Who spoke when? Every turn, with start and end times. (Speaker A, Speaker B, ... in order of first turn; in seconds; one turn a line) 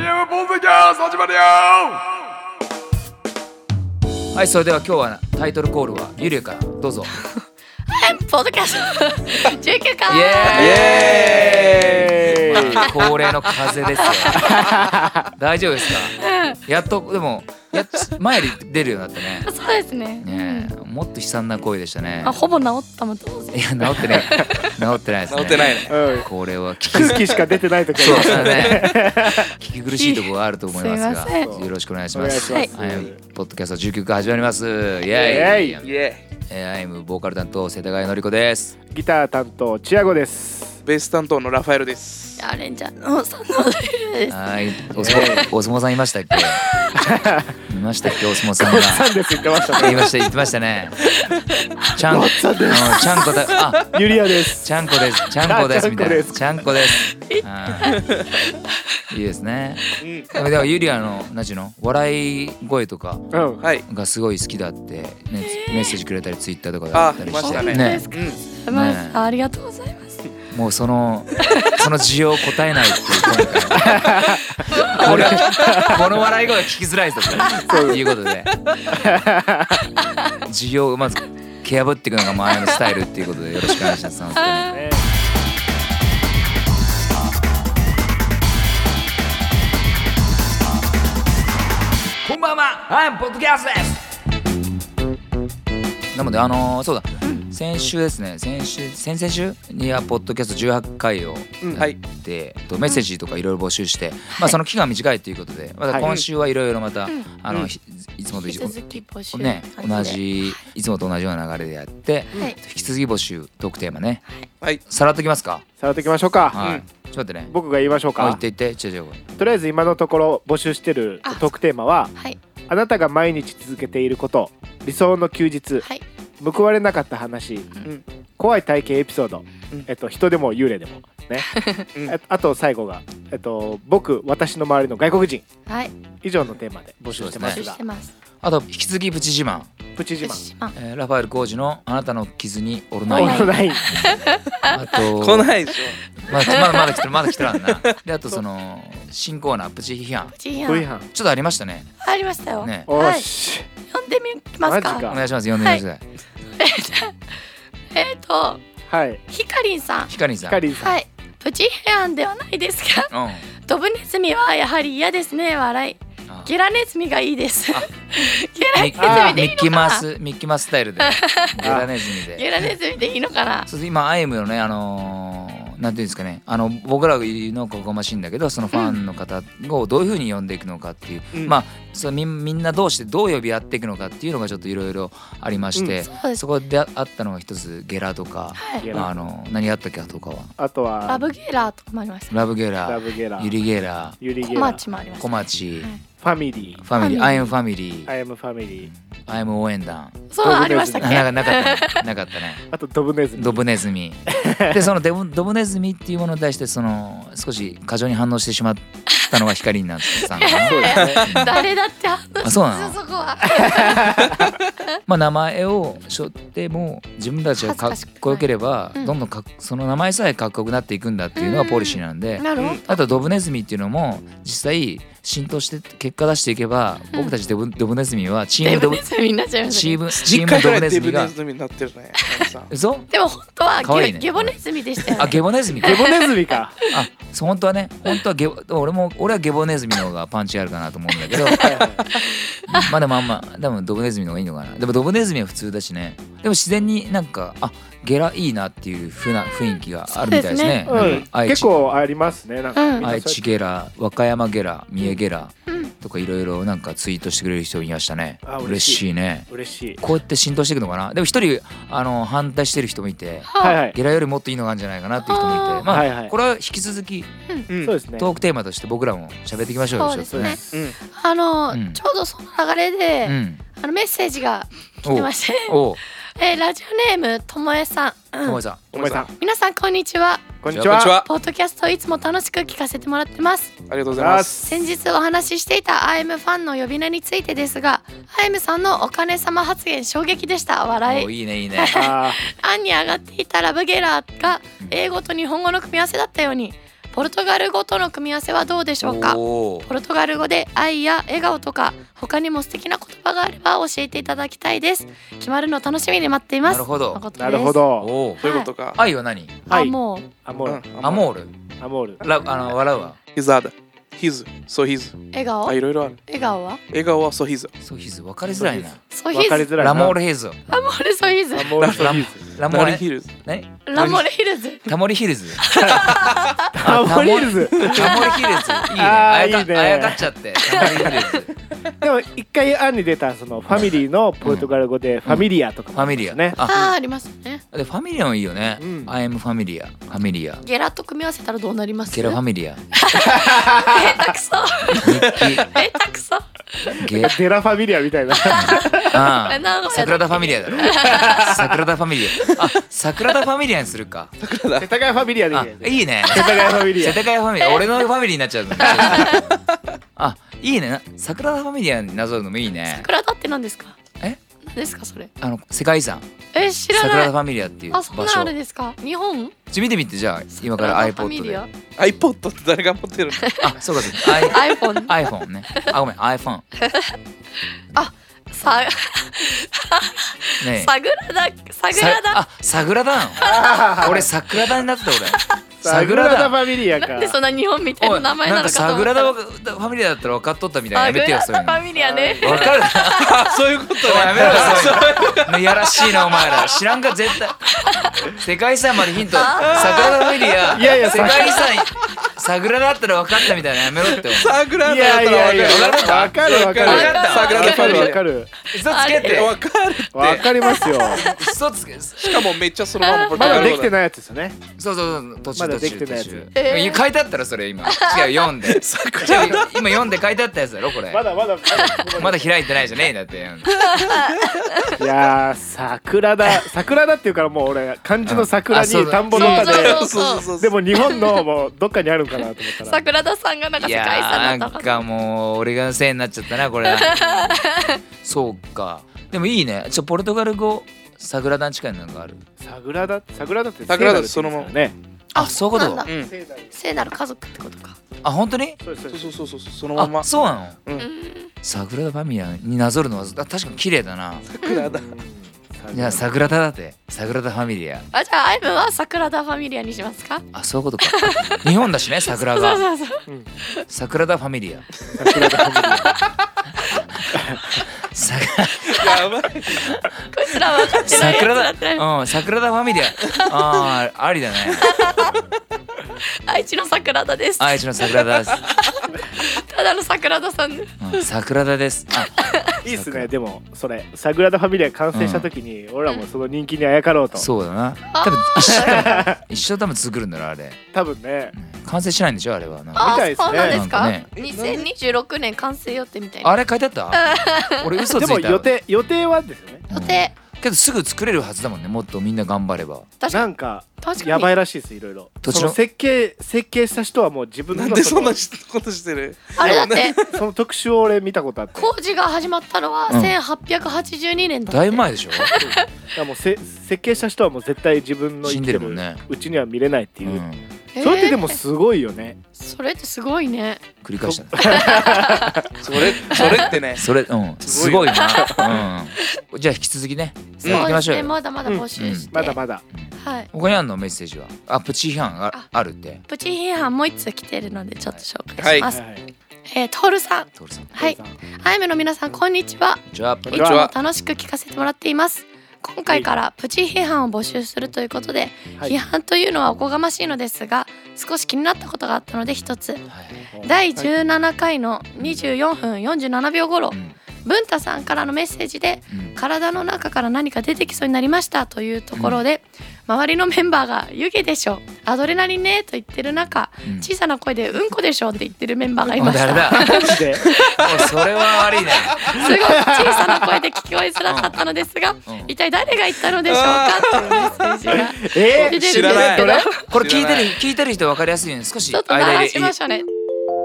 Speaker A: 0.9-1.6
Speaker B: 4.3-7.1
Speaker C: 7.9-11.1
Speaker B: 10.1-14.8
Speaker A: 10.5-13.3
Speaker D: 11.2-12.8
Speaker C: 14.0-14.5
Speaker D: 14.3-15.2
Speaker B: 15.3-19.5
Speaker C: 16.2-16.6
Speaker C: 19.4-20.7
Speaker B: 20.2-22.4
Speaker C: 22.2-24.8
Speaker B: 23.5-27.3
Speaker A: 25.3-26.0
Speaker D: 25.9-26.3
Speaker D: 26.9-29.5
Speaker A: 26.9-28.9
Speaker B: 27.9-38.7
Speaker C: 29.9-31.5
Speaker D: 31.3-33.2
Speaker C: 32.4-32.7
Speaker D: 35.1-35.8
Speaker A: 35.1-36.2
Speaker D: 38.9-40.8
Speaker A: 40.9-42.4
Speaker C: 42.4-44.4
Speaker B: 44.3-46.6
Speaker D: 45.0-45.5
Speaker C: 46.4-47.0
Speaker D: 46.9-47.6
Speaker B: 47.7-49.1
Speaker D: 48.5-50.1
Speaker B: 49.7-51.1
Speaker A: 51.2-51.6
Speaker B: 52.0-53.9
Speaker D: 52.0-54.7
Speaker B: 54.6-58.0
Speaker D: 55.4-56.6
Speaker C: 57.1-59.0
Speaker B: 59.1-63.2
Speaker A: 60.0-60.4
Speaker D: 63.3-63.6
Speaker B: 63.8-68.1
Speaker C: 65.4-66.0
Speaker A: 66.9-68.4
Speaker C: 67.4-70.2
Speaker B: 68.7-69.2
Speaker B: 70.5-78.5
Speaker C: 71.3-71.8
Speaker D: 73.7-76.1
Speaker C: 74.7-75.0
Speaker A: 75.0-75.7
Speaker C: 77.4-78.0
Speaker D: 77.4-78.0
Speaker D: 78.9-79.8
Speaker C: 80.0-80.4
Speaker B: 80.4-84.8
Speaker C: 82.5-82.8
Speaker C: 84.4-84.7
Speaker D: 84.6-85.0
Speaker B: 92.2-94.0
Speaker B: 96.1-114.2
Speaker C: 97.2-97.5
Speaker D: 101.6-101.9
Speaker A: 106.0-106.2
Speaker C: 108.3-110.6
Speaker B: 114.9-115.6
Speaker D: 115.8-116.6
Speaker B: 116.5-117.5
Speaker A: 116.6-116.8
Speaker D: 117.5-118.4
Speaker B: 118.2-119.2
Speaker D: 119.4-122.1
Speaker C: 121.2-121.5
Speaker D: 122.7-125.8
Speaker D: 126.4-127.7
Speaker D: 128.4-135.4
Speaker C: 131.5-131.8
Speaker C: 135.7-135.9
Speaker D: 136.2-137.8
Speaker B: 137.1-137.7
Speaker C: 137.4-138.1
Speaker B: 138.4-139.7
Speaker D: 139.9-140.4
Speaker C: 140.2-140.7
Speaker B: 140.7-145.5
Speaker C: 143.1-144.9
Speaker D: 143.1-143.9
Speaker A: 145.2-146.0
Speaker B: 146.2-150.3
Speaker C: 146.3-147.0
Speaker A: 147.6-147.9
Speaker C: 150.3-150.9
Speaker D: 150.7-151.1
Speaker B: 151.1-151.9
Speaker C: 152.0-153.3
Speaker B: 152.6-152.9
Speaker D: 152.9-153.7
Speaker C: 153.9-155.8
Speaker D: 154.6-155.2
Speaker B: 155.0-156.0
Speaker C: 156.6-157.1
Speaker C: 157.9-158.6
Speaker D: 158.9-159.2
Speaker C: 159.3-160.1
Speaker B: 160.1-160.6
Speaker D: 160.5-161.0
Speaker C: 160.8-163.1
Speaker B: 163.1-163.4
Speaker C: 163.6-170.0
Speaker B: 168.7-172.4
Speaker D: 169.0-169.4
Speaker C: 171.0-171.5
Speaker D: 171.6-171.9
Speaker C: 172.3-173.7
Speaker B: 173.7-190.5
Speaker D: 185.8-186.0
Speaker C: 186.0-186.4
Speaker C: 188.6-188.8
Speaker D: 188.8-189.3
Speaker D: 190.6-191.2
Speaker C: 191.1-192.3
Speaker B: 192.3-194.2
Speaker D: 192.8-193.5
Speaker D: 194.2-194.8
Speaker C: 194.4-196.0
Speaker B: 195.2-195.9
Speaker D: 196.2-196.8
Speaker B: 196.8-198.1
Speaker C: 197.0-197.5
Speaker D: 198.1-198.9
Speaker B: 198.8-202.6
Speaker C: 200.3-202.0
Speaker D: 200.4-201.2
Speaker D: 202.7-203.6
Speaker B: 203.3-211.6
Speaker D: 204.3-204.8
Speaker C: 210.1-214.2
Speaker D: 210.5-211.3
Speaker A: 210.9-211.2
Speaker B: 212.4-213.0
Speaker D: 213.5-214.4
Speaker B: 215.1-229.0
Speaker C: 217.6-219.2
Speaker C: 221.4-223.1
Speaker C: 228.6-230.0
Speaker B: 229.7-231.3
Speaker A: 230.2-232.7
Speaker B: 232.7-233.1
Speaker C: 233.1-235.3
Speaker B: 233.8-234.5
Speaker B: 235.1-236.1
Speaker D: 235.7-236.8
Speaker C: 235.8-236.3
Speaker B: 236.9-241.9
Speaker C: 241.3-242.9
Speaker D: 241.6-242.1
Speaker B: 242.7-251.7
Speaker C: 250.2-250.8
Speaker D: 250.9-253.4
Speaker A: 250.9-251.3
Speaker C: 252.7-253.0
Speaker B: 253.0-267.3
Speaker D: 258.4-260.0
Speaker C: 263.5-263.8
Speaker D: 263.6-263.9
Speaker C: 265.2-265.9
Speaker D: 265.9-266.3
Speaker A: 267.7-268.0
Speaker D: 267.8-268.3
Speaker B: 268.2-270.6
Speaker C: 269.9-275.8
Speaker D: 270.3-270.9
Speaker B: 271.7-272.0
Speaker B: 273.2-273.6
Speaker B: 275.0-276.0
Speaker C: 276.4-278.6
Speaker B: 278.4-278.9
Speaker A: 278.9-279.3
Speaker D: 278.9-279.3
Speaker C: 279.4-280.4
Speaker D: 280.6-281.1
Speaker B: 280.7-281.1
Speaker A: 280.9-281.3
Speaker C: 281.1-283.7
Speaker A: 283.9-284.6
Speaker D: 284.1-284.7
Speaker C: 284.6-307.8
Speaker B: 291.1-292.0
Speaker D: 291.9-292.4
Speaker B: 299.0-299.9
Speaker B: 306.6-307.2
Speaker D: 307.4-308.1
Speaker B: 308.0-308.4
Speaker C: 308.4-308.7
Speaker A: 308.4-309.0
Speaker B: 308.9-309.7
Speaker C: 309.7-310.3
Speaker D: 309.7-311.2
Speaker A: 310.6-311.2
Speaker B: 311.0-311.5
Speaker D: 311.8-312.2
Speaker B: 312.2-313.2
Speaker A: 313.3-316.2
Speaker C: 315.3-316.8
Speaker A: 316.9-317.7
Speaker B: 317.8-319.0
Speaker D: 318.5-320.2
Speaker C: 319.1-319.7
Speaker B: 319.8-320.6
Speaker C: 320.7-321.7
Speaker D: 321.5-322.4
Speaker A: 321.8-323.3
Speaker B: 321.9-324.3
Speaker C: 323.9-324.9
Speaker B: 324.9-325.7
Speaker C: 325.6-326.7
Speaker D: 325.8-326.1
Speaker D: 326.7-328.1
Speaker B: 326.8-331.5
Speaker A: 327.8-328.1
Speaker C: 328.0-328.8
Speaker D: 328.9-331.1
Speaker C: 330.6-331.4
Speaker D: 332.0-336.6
Speaker B: 333.7-334.7
Speaker B: 335.2-336.9
Speaker C: 336.6-337.6
Speaker B: 337.7-340.6
Speaker D: 338.8-339.1
Speaker C: 340.6-342.4
Speaker B: 342.1-342.8
Speaker C: 342.9-346.9
Speaker D: 343.2-344.1
Speaker B: 345.0-345.7
Speaker A: 345.1-345.5
Speaker B: 347.0-347.4
Speaker D: 347.0-349.2
Speaker C: 348.4-351.6
Speaker B: 348.5-354.3
Speaker D: 350.8-351.7
Speaker A: 354.4-354.9
Speaker D: 354.8-357.2
Speaker B: 355.5-359.6
Speaker C: 357.6-357.9
Speaker C: 358.8-359.5
Speaker B: 360.1-363.1
Speaker C: 362.9-364.0
Speaker C: 364.6-365.3
Speaker B: 365.4-366.2
Speaker C: 366.5-367.3
Speaker B: 366.9-368.5
Speaker C: 367.9-369.5
Speaker B: 369.7-371.6
Speaker C: 370.5-371.7
Speaker A: 372.0-373.4
Speaker C: 373.4-375.9
Speaker B: 373.6-376.6
Speaker C: 376.8-377.1
Speaker C: 377.9-382.4
Speaker B: 380.6-380.9
Speaker B: 381.9-386.6
Speaker D: 383.4-384.3
Speaker D: 385.8-387.4
Speaker C: 387.1-389.3
Speaker B: 388.0-391.9
Speaker C: 390.9-393.5
Speaker D: 391.9-392.7
Speaker B: 392.4-393.4
Speaker A: 393.2-395.8
Speaker B: 394.0-397.6
Speaker C: 397.6-398.3
Speaker B: 398.2-404.6
Speaker C: 399.2-400.2
Speaker A: 399.6-400.8
Speaker D: 400.7-401.7
Speaker A: 404.1-408.2
Speaker D: 404.8-408.5
Speaker B: 405.7-407.6
Speaker C: 406.8-408.1
Speaker B: 408.7-409.6
Speaker C: 408.8-409.5
Speaker A: 409.2-410.6
Speaker D: 410.1-411.3
Speaker C: 410.4-411.5
Speaker B: 411.1-412.4
Speaker A: 412.2-413.9
Speaker C: 413.0-413.6
Speaker D: 413.3-414.6
Speaker B: 414.8-421.3
Speaker D: 415.6-416.5
Speaker C: 416.5-417.0
Speaker C: 417.9-418.5
Speaker A: 418.6-419.7
Speaker D: 421.1-422.6
Speaker C: 421.7-422.0
Speaker B: 422.1-424.0
Speaker C: 423.8-424.9
Speaker A: 424.1-424.7
Speaker D: 425.0-433.0
Speaker B: 428.2-429.3
Speaker A: 429.3-430.8
Speaker C: 429.3-431.4
Speaker C: 432.6-435.0
Speaker B: 433.8-442.4
Speaker C: 436.8-438.0
Speaker D: 442.6-444.9
Speaker A: 443.9-444.7
Speaker C: 445.3-446.1
Speaker B: 445.3-446.1
Speaker A: 446.1-446.3
Speaker D: 446.2-446.7
Speaker C: 446.7-448.0
Speaker B: 448.2-448.8
Speaker D: 448.8-449.3
Speaker A: 449.1-450.3
Speaker B: 449.9-450.8
Speaker C: 451.0-451.5
Speaker B: 451.6-454.4
Speaker A: 454.5-455.1
Speaker D: 454.9-456.3
Speaker B: 455.9-458.1
Speaker C: 458.1-460.4
Speaker B: 460.5-462.8
Speaker C: 461.0-461.7
Speaker C: 462.3-463.8
Speaker B: 463.9-464.9
Speaker D: 465.1-466.2
Speaker C: 465.4-466.2
Speaker B: 466.9-470.1
Speaker D: 467.3-467.8
Speaker A: 468.9-469.9
Speaker C: 470.3-472.0
Speaker B: 470.7-474.9
Speaker C: 474.7-475.4
Speaker C: 476.4-478.1
Speaker B: 477.6-478.6
Speaker C: 478.9-481.2
Speaker B: 481.0-483.3
Speaker C: 482.4-482.8
Speaker D: 482.8-487.5
Speaker B: 485.1-485.5
Speaker B: 487.3-490.8
Speaker C: 488.1-489.3
Speaker D: 488.7-489.4
Speaker D: 490.9-491.5
Speaker B: 491.5-494.3
Speaker C: 492.9-496.6
Speaker D: 493.0-493.8
Speaker A: 494.4-494.8
Speaker D: 494.5-494.9
Speaker B: 496.4-498.7
Speaker C: 497.1-498.0
Speaker D: 498.1-499.8
Speaker C: 499.9-500.3
Speaker B: 499.9-503.1
Speaker C: 503.2-504.5
Speaker D: 503.3-508.4
Speaker B: 505.4-505.8
Speaker A: 507.7-510.4
Speaker C: 509.6-510.2
Speaker D: 510.3-511.9
Speaker C: 511.8-515.9
Speaker B: 513.1-513.3
Speaker B: 514.7-515.5
Speaker D: 515.6-520.4
Speaker B: 518.4-519.2
Speaker B: 520.2-520.6
Speaker C: 520.9-521.5
Speaker D: 521.0-522.4
Speaker C: 522.5-523.8
Speaker B: 524.0-525.0
Speaker D: 524.3-525.6
Speaker C: 524.5-525.7
Speaker A: 525.8-527.1
Speaker B: 525.9-531.4
Speaker C: 526.3-526.6
Speaker A: 527.6-528.6
Speaker C: 528.1-528.6
Speaker A: 530.6-530.9
Speaker C: 530.6-532.6
Speaker D: 531.6-532.8
Speaker B: 532.0-532.3
Speaker B: 532.9-536.2
Speaker C: 533.2-533.5
Speaker C: 536.3-539.0
Speaker A: 538.6-538.9
Speaker D: 538.8-539.2
Speaker C: 539.6-553.0
Speaker B: 540.5-541.0
Speaker D: 541.0-541.4
Speaker B: 543.1-543.7
Speaker D: 543.5-543.8
Speaker A: 543.5-543.9
Speaker B: 553.1-553.5
Speaker D: 553.5-553.9
Speaker C: 553.6-571.2
Speaker B: 555.2-555.5
Speaker B: 559.1-559.4
Speaker B: 562.1-562.4
Speaker B: 566.8-567.1
Speaker B: 569.2-572.4
Speaker D: 569.2-570.4
Speaker A: 572.1-572.3
Speaker C: 572.2-579.9
Speaker D: 572.3-573.3
Speaker B: 574.2-574.6
Speaker B: 575.2-575.5
Speaker A: 576.4-577.8
Speaker D: 577.9-579.7
Speaker A: 578.5-580.6
Speaker B: 579.9-582.8
Speaker C: 581.9-583.0